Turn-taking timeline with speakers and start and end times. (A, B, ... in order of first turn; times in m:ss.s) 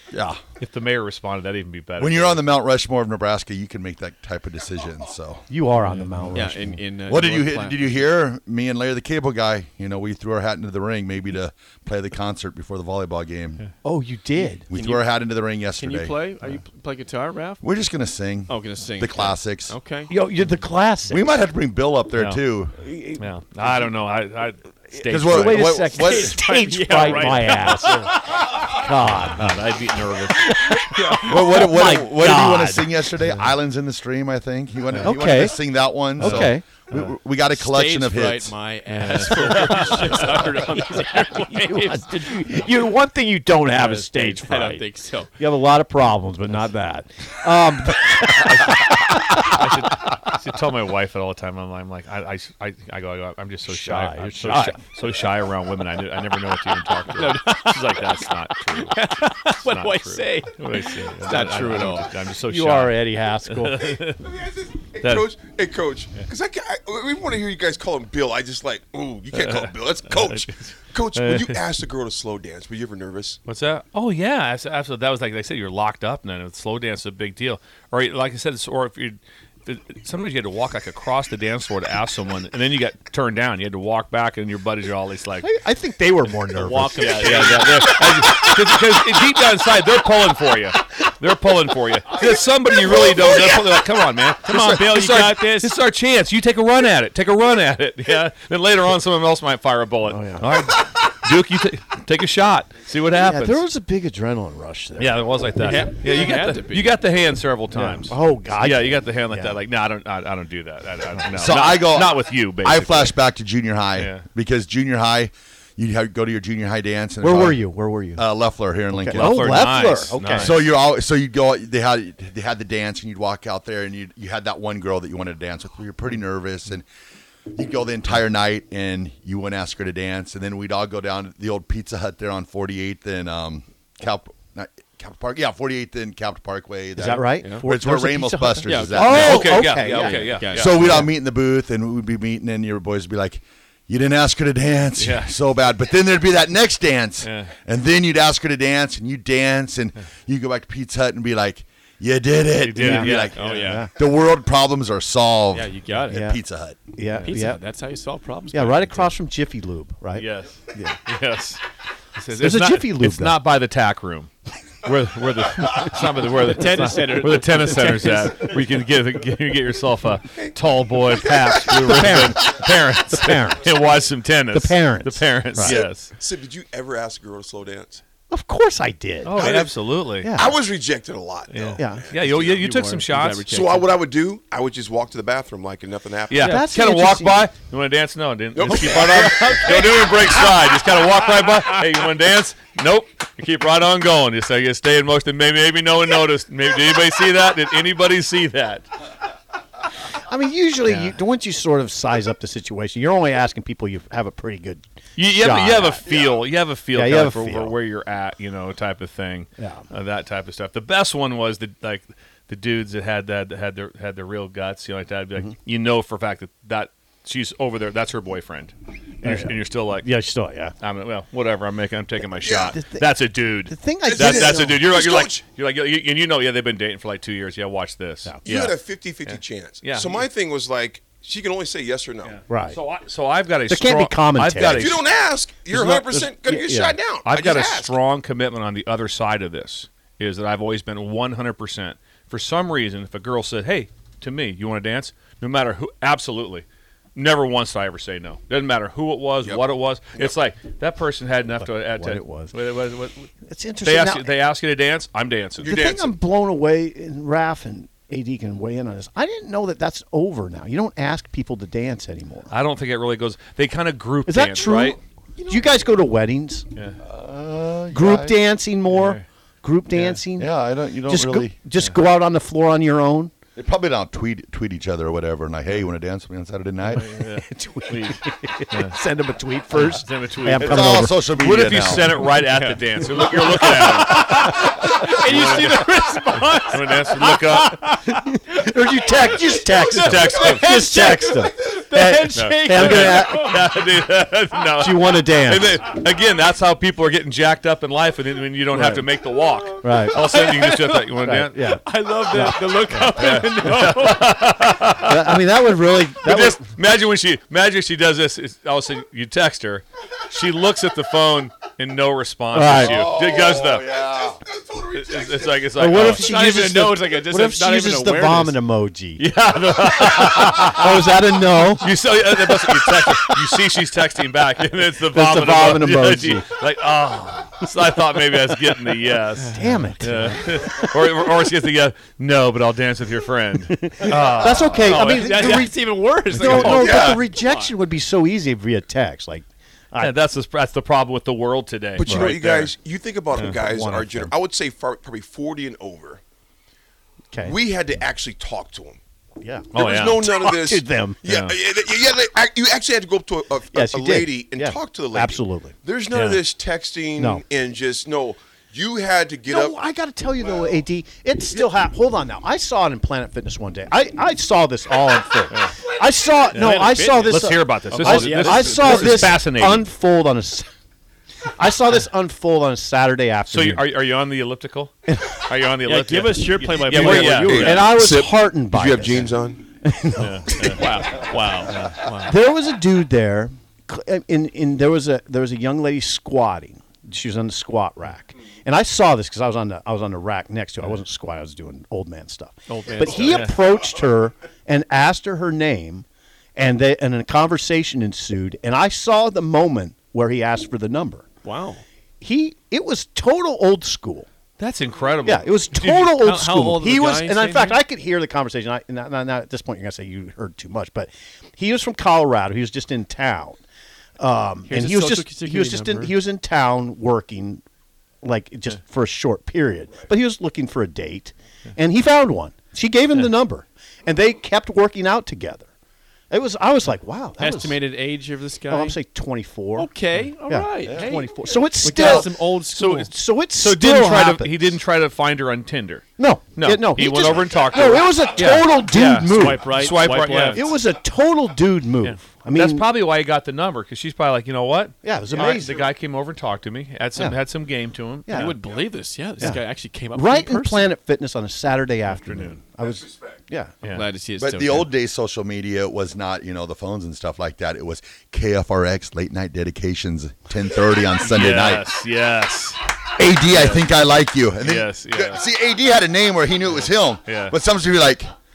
0:00.1-0:00.4 A
0:00.6-0:02.4 B
0:02.0-0:05.5 A
0:05.5-0:06.8 C
0:05.8-0:06.5 B
0:06.3-0:08.1 D
0:07.1-0:13.6 A
0:13.8-0:14.7 C
0:14.7-0:16.2 A
0:14.7-0:15.0 D
0:15.8-0:17.6 D
0:17.6-0:19.8 A
0:18.5-0:20.1 D
0:20.1-0:21.3 C
0:21.1-0:22.8 A
0:22.1-0:22.4 B
0:22.8-0:23.9 C
0:23.2-0:25.8 B
0:25.1-0:26.4 A
0:25.3-0:29.5 C
0:25.8-0:28.2 D
0:27.1-0:28.1 B
0:29.1-0:31.0 B
0:30.4-0:33.5 C
0:30.9-0:31.4 D
0:31.3-0:38.6 A
0:35.0-0:35.6 C
0:36.2-0:36.7 C
0:36.2-0:37.1 B
0:37.5-0:42.4 D
0:39.0-0:40.2 B
0:39.1-0:40.6 C
0:41.4-0:44.8 C
0:43.8-0:45.3 D
0:45.4-0:50.2 C
0:48.2-1:04.2 B
0:53.7-0:54.8 C
0:57.1-1:02.1 D
1:02.4-1:03.9 C
1:03.9-1:13.4 E
1:05.0-1:05.3 B
1:09.3-1:11.6 B
1:13.5-1:25.5 B
1:25.4-1:27.2 C
1:26.5-1:27.9 D
1:26.9-1:43.6 B
1:33.0-1:33.6 E
1:34.4-1:35.7 D
1:40.0-1:40.5 C
1:43.1-1:45.2 C
1:45.0-1:53.2 B
1:45.6-1:46.9 D
1:47.7-1:49.6 C
1:51.4-1:59.5 A
1:54.0-1:54.2 B
1:57.2-1:58.2 C
1:58.9-2:00.6 C
1:59.1-2:00.6 B
2:00.4-2:06.8 A
2:07.5-2:36.8 A
2:17.0-2:20.2 C
2:17.4-2:17.7 D
2:18.7-2:21.0 D
2:19.1-2:20.9 B
2:20.8-2:21.1 C
2:25.0-2:25.3 B
2:27.2-2:27.5 B
2:32.6-2:33.5 B
2:32.8-2:33.9 C
2:33.3-2:33.9 D
2:35.5-2:36.3 D
2:36.1-2:36.4 C
2:36.9-2:37.6 C
2:37.1-2:37.4 B
2:37.2-2:39.1 D
2:38.5-2:41.0 C
2:40.2-2:41.6 B
2:42.2-2:42.7 D
2:42.4-2:43.4 C
2:42.4-2:56.1 B
2:46.4-2:48.2 D
2:51.8-2:53.8 C
2:54.5-2:55.8 C
2:55.6-2:58.0 E
2:58.3-2:59.4 C
2:59.2-3:00.3 B
2:59.4-2:59.8 E
3:00.2-3:00.6 C
3:00.3-3:02.4 E
3:01.5-3:03.5 B
3:01.8-3:02.1 C
3:02.2-3:03.9 D
3:03.5-3:06.6 E
3:06.3-3:18.9 B
3:06.4-3:07.5 C
3:08.6-3:10.6 E
3:08.7-3:09.3 C
3:20.3-3:26.2 C
3:20.8-3:21.2 B
3:25.2-3:40.2 B
3:26.9-3:27.8 C
3:29.6-3:29.8 C
3:39.2-3:40.8 C
3:40.8-3:50.2 B
3:42.4-3:42.8 E
3:42.7-3:44.9 C
3:44.0-3:45.4 E
3:48.4-3:52.4 E
3:52.2-3:55.0 B
3:52.5-3:52.8 C
3:53.7-3:55.0 C
3:54.6-3:58.0 E
3:55.7-3:57.0 C
3:57.2-4:13.3 B
4:11.6-4:12.5 C
4:13.5-4:14.4 C
4:13.8-4:15.7 B
4:15.6-4:16.2 E
4:15.6-4:22.5 C
4:22.5-4:25.0 B
4:24.3-4:26.7 C
4:27.0-4:28.4 A
4:27.9-4:33.3 C
4:28.9-4:29.2 B
4:29.9-4:30.2 B
4:30.4-4:31.6 A
4:33.6-4:37.1 A
4:36.8-4:39.0 B
4:37.2-4:41.3 C
4:39.7-4:47.9 B
4:40.6-4:42.2 A
4:42.4-4:48.1 D
4:48.0-4:53.4 C
4:49.3-4:53.7 D
4:49.8-4:50.8 B
4:52.4-5:01.6 B
4:54.8-4:55.8 C
4:58.7-4:59.0 C
4:59.8-5:00.2 C
5:00.1-5:01.1 D
5:01.2-5:03.2 C
5:01.6-5:04.3 D
5:03.1-5:14.1 B
5:05.0-5:06.6 C
5:12.5-5:13.0 C
5:12.8-5:14.4 A
5:14.3-5:15.7 E
5:14.9-5:16.2 B
5:15.7-5:19.2 C
5:16.0-5:18.6 D
5:19.2-5:35.7 B
5:19.8-5:23.3 C
5:25.0-5:26.5 C
5:29.5-5:29.9 D
5:29.5-5:30.9 C
5:33.7-5:40.2 C
5:34.8-5:37.7 D
5:36.4-5:36.8 B
5:36.6-5:37.2 E
5:40.0-5:42.7 B
5:42.0-5:46.2 E
5:43.3-5:44.3 C
5:47.3-5:47.6 C
5:47.4-5:49.0 E
5:49.4-5:51.2 C
5:49.7-5:59.8 E
5:49.7-5:50.2 B
5:51.3-5:51.6 B
5:53.7-5:55.8 C
5:56.1-5:56.4 B
5:57.2-5:57.4 C
5:59.5-6:10.7 C
6:05.5-6:05.8 B
6:06.5-6:09.9 B
6:06.6-6:09.3 D
6:11.6-6:13.9 C
6:13.5-6:17.8 B
6:15.8-6:18.0 D
6:16.9-6:19.7 E
6:17.5-6:20.9 C
6:20.2-6:21.0 B
6:20.5-6:20.8 E
6:20.7-6:22.4 D
6:21.7-6:22.0 B
6:22.2-6:36.0 C
6:32.7-6:33.5 D
6:36.6-6:41.3 C
6:41.4-6:41.8 D
6:42.2-6:44.3 C
6:44.6-6:46.1 B
6:45.2-6:53.6 C
6:45.8-6:47.8 D
6:54.2-6:57.6 C
6:54.7-6:56.1 D
6:58.2-7:05.7 C
7:06.3-7:07.8 C
7:07.4-7:09.0 D
7:08.7-7:09.9 C
7:09.8-7:13.1 D
7:10.5-7:12.3 C
7:10.9-7:11.1 A
7:12.7-7:20.7 B
7:13.0-7:14.8 C
7:16.2-7:19.7 C
7:19.3-7:20.8 D
7:20.5-7:22.9 C
7:22.0-7:28.5 B
7:25.0-7:25.9 C
7:28.3-7:28.6 C
7:28.3-7:30.9 D
7:30.1-7:33.8 C
7:32.2-7:32.6 B
7:33.9-7:34.9 D
7:34.4-7:41.9 A
7:41.2-7:43.9 B
7:43.1-7:48.3 A
7:44.6-7:45.5 B
7:47.2-7:47.6 B